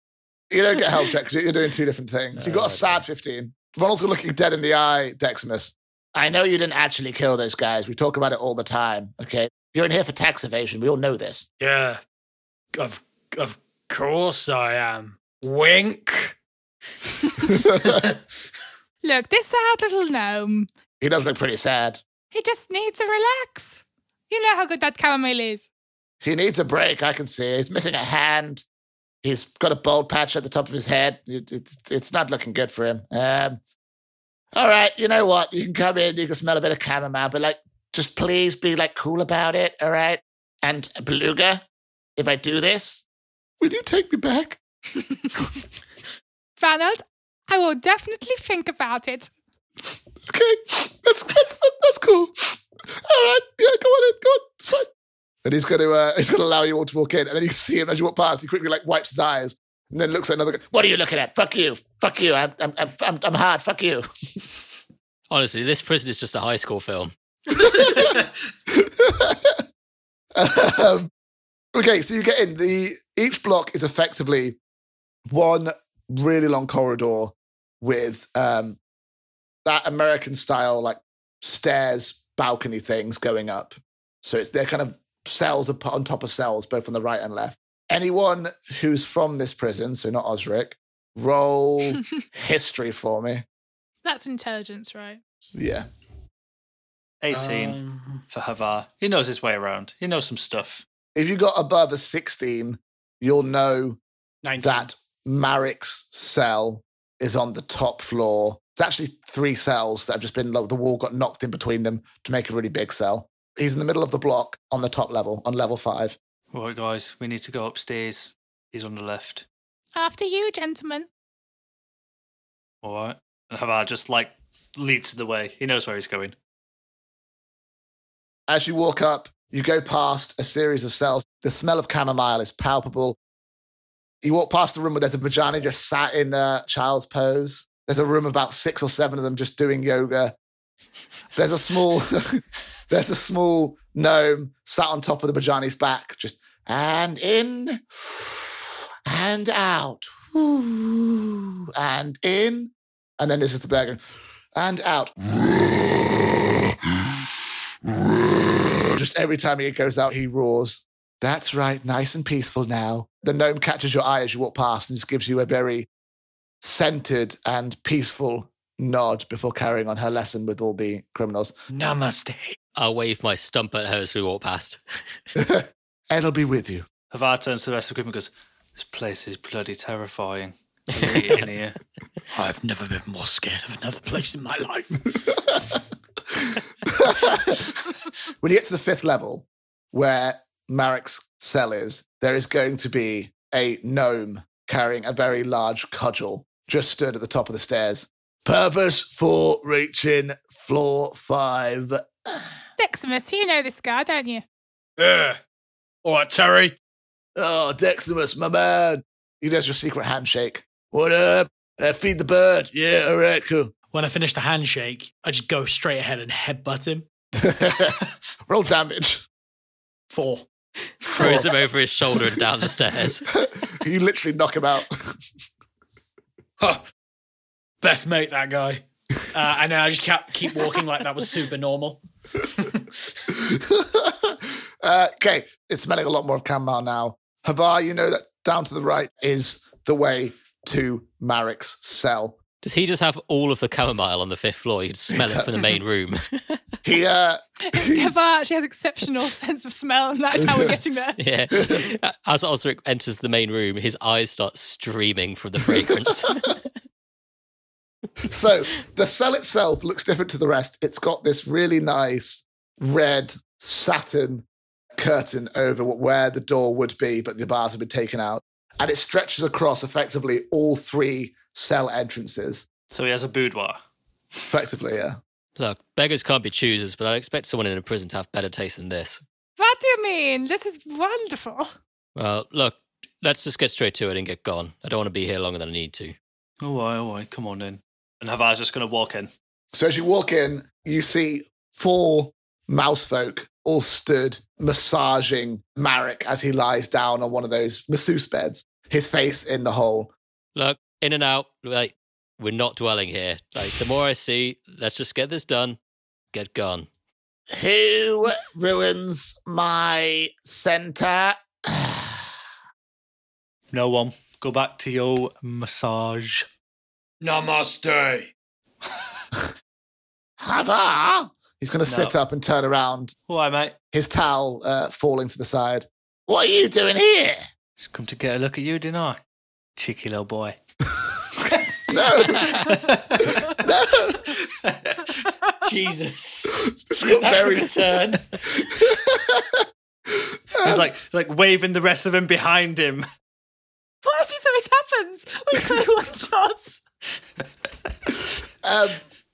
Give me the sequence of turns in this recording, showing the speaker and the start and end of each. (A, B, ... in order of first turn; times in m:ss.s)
0:00.5-0:11.5 A
0:02.4-0:03.0 B
0:11.6-0:12.0 C
0:12.8-0:16.4 C
0:17.4-0:18.1 C
0:17.7-0:18.0 A
0:19.0-0:20.7 D
0:21.0-0:22.0 A
0:22.3-0:25.7 D
0:26.2-0:28.6 A
0:29.2-0:33.6 A
0:34.6-0:41.6 A
0:42.2-0:43.0 A
0:43.6-0:44.6 A
0:46.6-0:49.3 D
0:50.3-0:54.9 A
0:55.4-1:04.5 A
1:05.3-1:07.1 B
1:07.5-1:09.6 A
1:10.4-1:11.1 A
1:11.8-1:14.6 A
1:15.3-1:18.8 A
1:19.6-1:33.4 A
1:34.0-1:35.2 D
1:35.6-1:35.9 A
1:37.2-1:40.8 E
1:37.3-1:38.2 C
1:41.1-1:44.0 A
1:44.4-1:44.9 C
1:44.6-1:56.2 A
1:56.5-1:59.4 E
2:00.0-2:01.1 D
2:02.8-2:06.4 E
2:08.5-2:13.2 A
2:14.2-2:20.4 A
2:21.4-2:34.0 A
2:34.6-2:37.1 A
2:37.9-2:45.9 A
2:46.6-2:51.5 A
2:51.7-2:52.6 C
2:52.8-2:54.8 B
2:55.4-2:56.9 A
2:57.1-3:01.8 E
3:02.3-3:05.4 C
3:06.8-3:07.7 A
3:08.4-3:22.5 A
3:22.8-3:24.4 D
3:25.0-3:25.4 C
3:26.0-3:26.8 C
3:27.4-3:33.7 A
3:33.9-3:37.1 C
3:37.4-3:39.2 A
3:40.1-3:40.4 C
3:41.1-3:43.3 B
3:41.1-3:41.5 A
3:43.3-3:45.2 A
3:46.6-3:46.8 C
3:47.8-3:52.8 C
3:53.3-4:02.4 A
4:02.6-4:06.6 B
4:05.1-4:05.5 A
4:06.8-4:08.1 A
4:07.7-4:11.2 D
4:10.4-4:10.8 A
4:11.2-4:16.6 B
4:18.2-4:24.4 A
4:25.0-4:32.7 A
4:32.9-4:33.8 E
4:34.5-4:35.2 A
4:35.6-4:39.2 B
4:39.6-4:41.7 D
4:42.1-4:46.2 B
4:46.6-4:49.3 E
4:49.7-5:00.1 A
5:00.6-5:05.8 B
5:06.3-5:06.9 B
5:07.5-5:12.3 A
5:13.7-5:16.5 E
5:17.2-5:18.3 C
5:20.4-5:23.1 A
5:21.9-5:22.2 E
5:23.3-5:23.8 E
5:23.9-5:27.4 A
5:27.8-5:29.2 E
5:29.8-5:30.6 E
5:31.9-5:32.7 A
5:32.2-5:33.5 E
5:33.2-5:34.3 A
5:34.3-5:35.2 E
5:35.6-5:38.7 C
5:36.6-5:37.9 A
5:38.5-5:40.9 A
5:40.6-5:43.0 E
5:44.0-5:46.8 D
5:48.6-5:49.0 A